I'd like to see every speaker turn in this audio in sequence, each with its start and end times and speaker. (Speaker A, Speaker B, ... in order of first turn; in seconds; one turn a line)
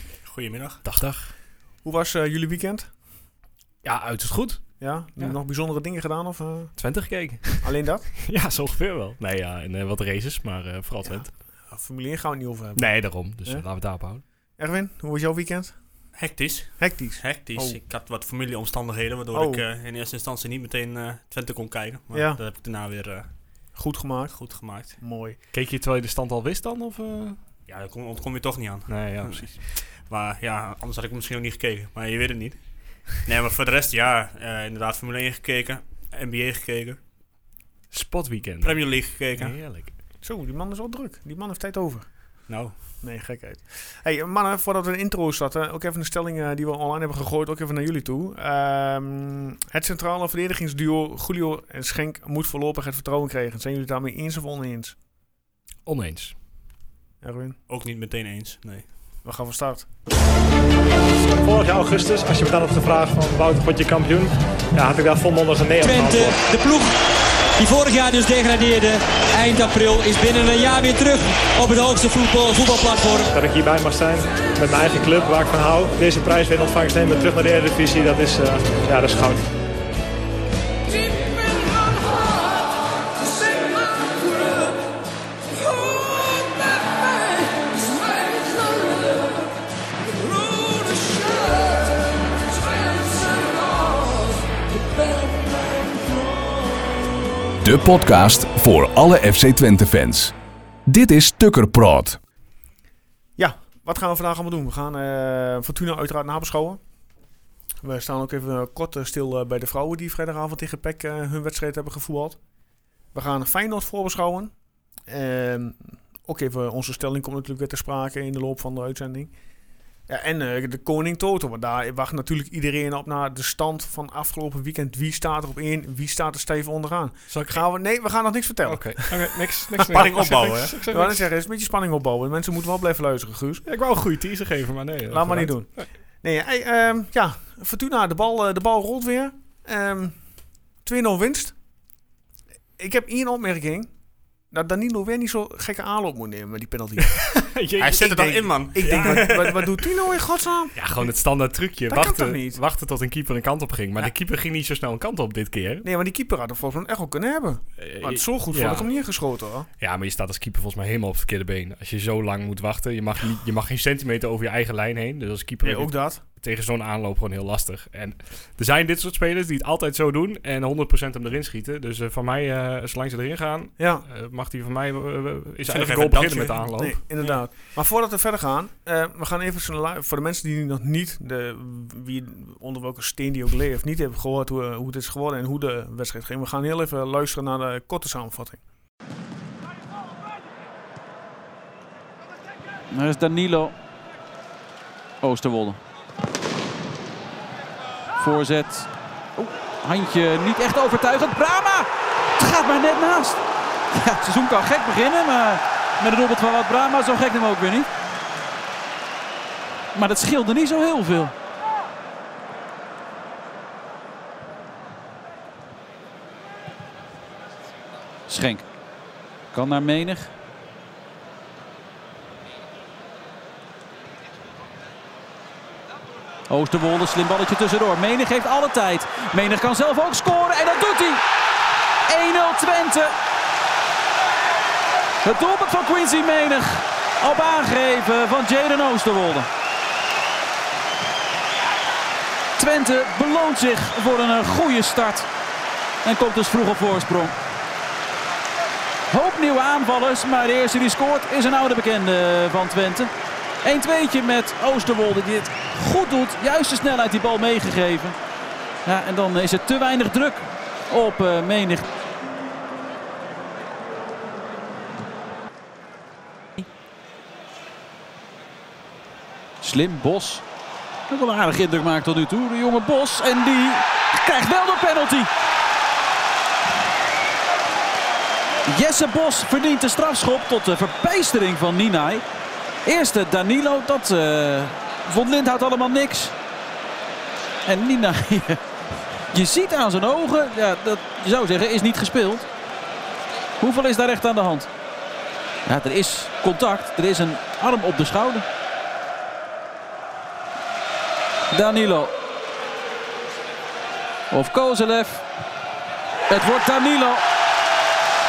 Speaker A: 0.2-0.8
Speaker B: 0.8-1.3
Speaker C: 1.8-2.9
Speaker B: 3.8-5.3
Speaker C: 4.8-6.7
Speaker B: 6.8-11.3
Speaker C: 7.6-8.1
Speaker C: 11.0-13.6
Speaker B: 12.8-14.2
Speaker C: 14.6-15.7
Speaker A: 16.1-23.3
Speaker C: 16.8-17.8
Speaker C: 19.3-19.6
Speaker C: 22.1-22.4
Speaker C: 23.8-24.3
Speaker A: 24.3-25.0
Speaker C: 25.0-25.4
Speaker B: 25.5-27.4
Speaker A: 27.7-37.0
Speaker B: 28.9-29.6
Speaker B: 37.9-39.9
Speaker A: 38.6-39.6
Speaker C: 40.2-42.1
Speaker A: 42.5-42.7
Speaker C: 43.0-55.0
Speaker B: 55.8-56.3
Speaker C: 57.2-57.6
Speaker A: 57.7-58.9
Speaker C: 59.2-59.9
Speaker D: 61.4-66.4
Speaker E: 65.8-67.0
Speaker E: 67.6-73.3
Speaker D: 73.3-79.5
Speaker F: 97.6-100.3
Speaker F: 100.8-102.2
Speaker C: 103.4-106.8
Speaker C: 107.8-112.4
Speaker C: 113.1-114.5
Speaker C: 115.1-119.3
Speaker C: 120.1-133.6
Speaker B: 127.3-127.6
Speaker B: 128.6-131.2
Speaker A: 129.9-130.8
Speaker B: 133.7-135.9
Speaker C: 135.1-135.7
Speaker C: 136.2-140.2
Speaker C: 140.8-141.5
Speaker C: 142.8-143.9
Speaker C: 144.5-147.3
Speaker B: 147.0-149.4
Speaker A: 147.8-149.7
Speaker C: 148.7-151.1
Speaker B: 150.7-155.8
Speaker C: 151.9-152.6
Speaker C: 155.8-159.7
Speaker B: 157.8-158.9
Speaker B: 159.8-177.0
Speaker C: 165.6-166.2
Speaker C: 173.8-174.0
Speaker A: 175.7-176.6
Speaker C: 176.2-188.6
Speaker G: 192.9-193.7
Speaker G: 195.2-195.8
Speaker G: 198.2-207.9
Speaker G: 209.9-211.3
Speaker G: 218.3-218.7
Speaker G: 219.5-220.3
Speaker G: 226.5-231.2
Speaker G: 232.1-233.1
Speaker G: 235.2-239.5
Speaker G: 242.6-245.3
Speaker G: 246.0-247.3
Speaker G: 249.1-253.1
Speaker G: 253.6-258.2
Speaker G: 258.9-261.9
Speaker G: 269.6-270.4
Speaker G: 271.1-275.3
Speaker G: 278.7-282.2
Speaker G: 282.9-286.3
Speaker G: 287.6-288.6
Speaker G: 289.3-292.4
Speaker G: 293.6-294.7
Speaker G: 295.6-298.4
Speaker G: 301.5-302.1
Speaker G: 304.3-305.2
Speaker G: 306.3-307.2